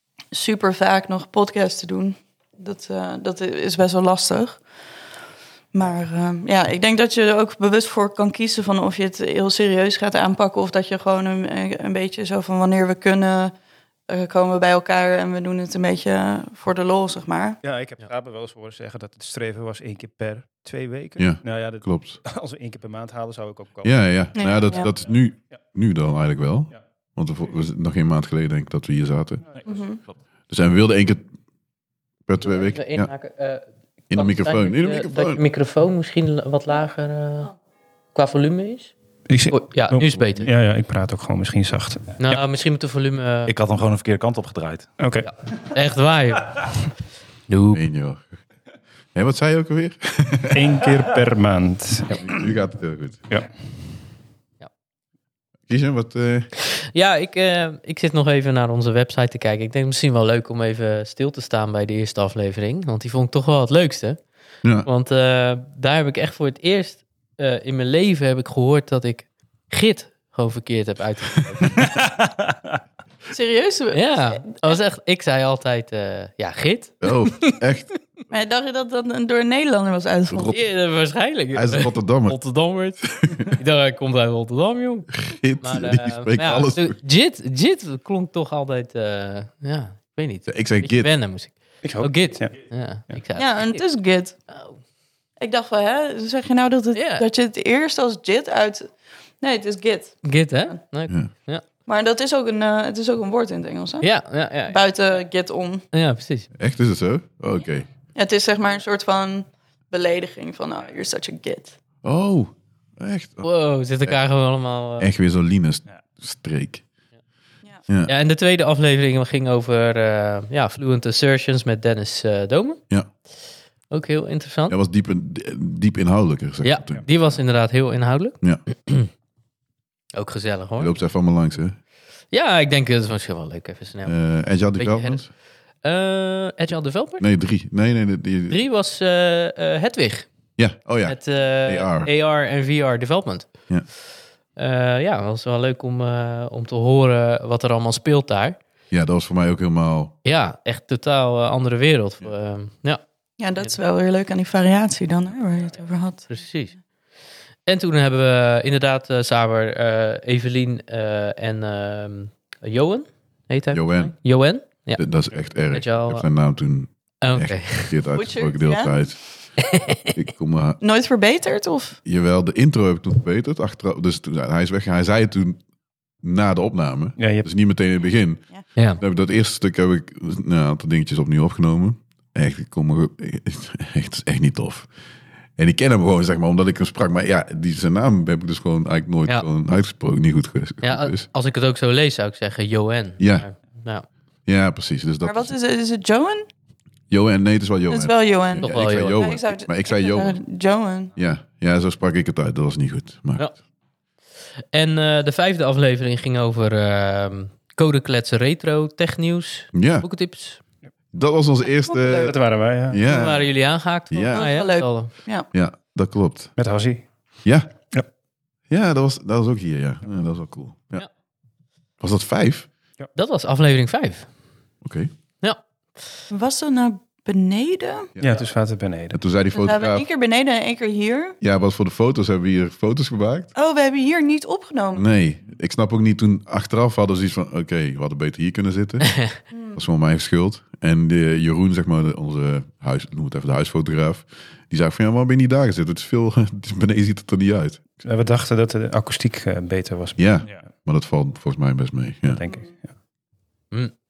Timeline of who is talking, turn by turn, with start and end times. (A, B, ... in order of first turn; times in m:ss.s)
0:00.3-0:04.6 A
0:05.7-0:13.5 A
0:14.1-0:17.6 A
0:17.6-0:24.0 B
0:21.2-0:22.2 C
0:23.8-0:29.4 C
0:24.4-0:24.9 A
0:29.7-0:30.0 A
0:30.5-0:31.3 C
0:32.2-0:33.1 C
0:32.4-0:37.5 D
0:34.1-0:35.4 C
0:38.1-0:38.9 D
0:39.3-0:42.1 B
0:39.5-0:40.5 D
0:42.2-0:43.5 D
0:43.5-0:44.9 E
0:45.0-0:45.3 B
0:45.2-0:46.8 D
0:47.5-0:47.8 D
0:47.7-0:48.3 C
0:49.1-0:50.6 C
0:50.5-0:52.2 B
0:52.1-0:53.2 C
0:55.7-0:56.5 C
0:56.8-1:04.2 D
1:04.6-1:04.9 C
1:04.8-1:12.0 D
1:11.8-1:12.5 E
1:13.3-1:14.7 A
1:13.9-1:17.6 D
1:17.0-1:17.9 C
1:18.3-1:20.6 A
1:20.3-1:20.6 C
1:20.5-1:33.8 D
1:21.5-1:22.4 C
1:25.2-1:27.0 C
1:30.5-1:31.1 C
1:31.8-1:33.2 B
1:33.4-1:34.4 A
1:34.5-1:34.8 D
1:35.4-1:40.2 A
1:36.9-1:37.2 D
1:40.2-1:41.7 D
1:41.8-1:44.1 A
1:44.0-1:44.8 D
1:44.7-1:45.8 A
1:45.9-1:46.5 D
1:46.5-1:47.9 C
1:48.1-1:51.8 A
1:52.0-1:53.5 C
1:53.4-1:55.1 D
1:55.0-1:56.8 C
1:57.9-1:58.1 C
1:58.0-2:02.9 D
2:03.9-2:04.7 D
2:04.7-2:07.0 C
2:06.6-2:09.1 D
2:10.1-2:11.0 D
2:10.8-2:11.8 C
2:12.3-2:14.2 D
2:14.0-2:15.3 C
2:14.8-2:15.3 D
2:15.8-2:17.2 D
2:17.2-2:18.6 C
2:18.5-2:20.3 D
2:20.6-2:22.1 C
2:21.0-2:23.5 D
2:24.6-2:28.6 D
2:28.9-2:30.1 C
2:30.2-2:33.0 D
2:33.4-2:36.3 A
2:36.3-2:36.8 D
2:37.6-2:45.0 D
2:43.7-2:44.1 C
2:44.9-2:49.2 C
2:45.7-2:46.3 D
2:47.2-2:48.0 D
2:48.1-2:49.1 A
2:49.6-2:50.1 D
2:50.1-2:50.8 C
2:50.8-2:52.0 A
2:52.0-2:55.6 C
2:56.2-3:04.9 C
2:57.2-2:57.5 B
3:05.6-3:11.2 C
3:10.8-3:14.0 D
3:13.2-3:13.5 C
3:14.4-3:15.5 C
3:15.2-3:16.4 A
3:17.1-3:20.4 C
3:17.9-3:21.1 A
3:18.6-3:19.3 D
3:21.1-3:23.5 C
3:24.7-3:30.6 D
3:29.7-3:30.1 C
3:31.1-3:33.5 C
3:32.0-3:33.0 B
3:33.0-3:35.1 D
3:34.1-3:34.5 C
3:34.3-3:35.5 A
3:35.5-3:36.5 C
3:36.6-3:37.1 B
3:37.4-3:37.7 C
3:38.7-3:41.1 C
3:42.0-3:42.7 C
3:43.1-3:44.3 D
3:44.8-3:45.1 C
3:46.3-3:48.1 A
3:48.2-3:48.4 C
3:48.2-3:49.2 B
3:49.1-3:50.0 C
3:49.5-3:51.4 A
3:51.4-3:53.5 C
3:53.5-3:55.0 A
3:54.9-3:59.2 C
3:59.5-3:59.8 A
3:59.7-4:07.8 C
4:08.0-4:10.5 B
4:10.2-4:12.4 C
4:12.2-4:12.8 B